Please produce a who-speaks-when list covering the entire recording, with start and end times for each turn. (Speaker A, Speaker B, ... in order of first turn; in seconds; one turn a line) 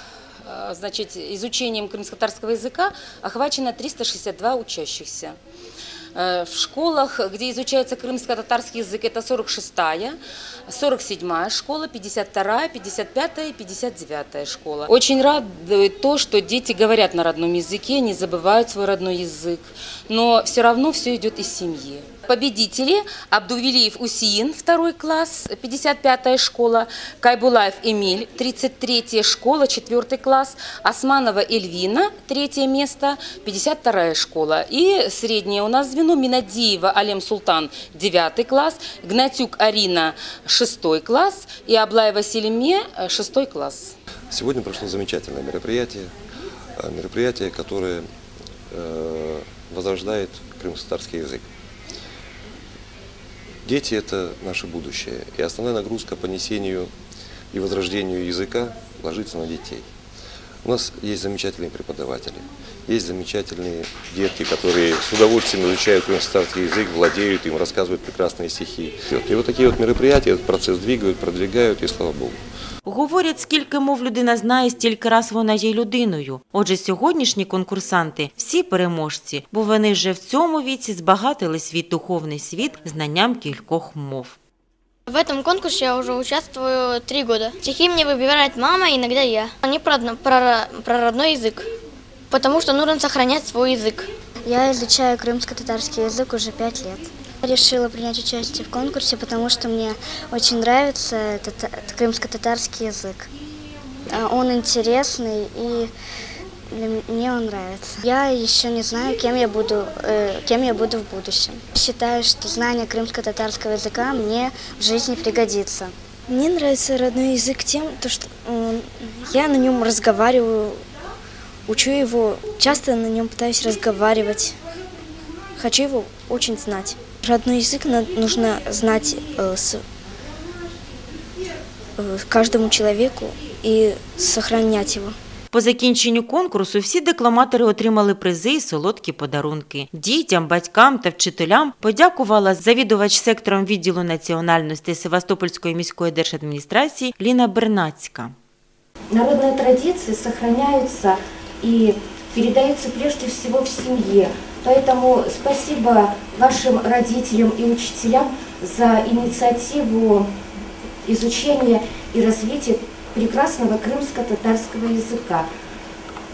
Speaker A: 0.4-5.3
Speaker A: 6.1-43.9
Speaker B: 44.3-46.1
Speaker B: 46.8-48.0
Speaker B: 48.7-51.4
Speaker B: 53.6-56.9
Speaker B: 57.5-59.9
Speaker B: 60.6-72.4
Speaker C: 72.8-84.4
Speaker D: 85.1-91.7
Speaker D: 92.3-94.1
Speaker E: 94.5-103.3
Speaker E: 104.1-105.9
Speaker E: 106.7-115.9
Speaker F: 116.3-120.8
Speaker F: 121.7-124.6
Speaker F: 125.6-129.8
Speaker F: 132.0-135.2
Speaker C: 135.5-148.3
Speaker G: 149.1-160.3
Speaker G: 161.1-165.5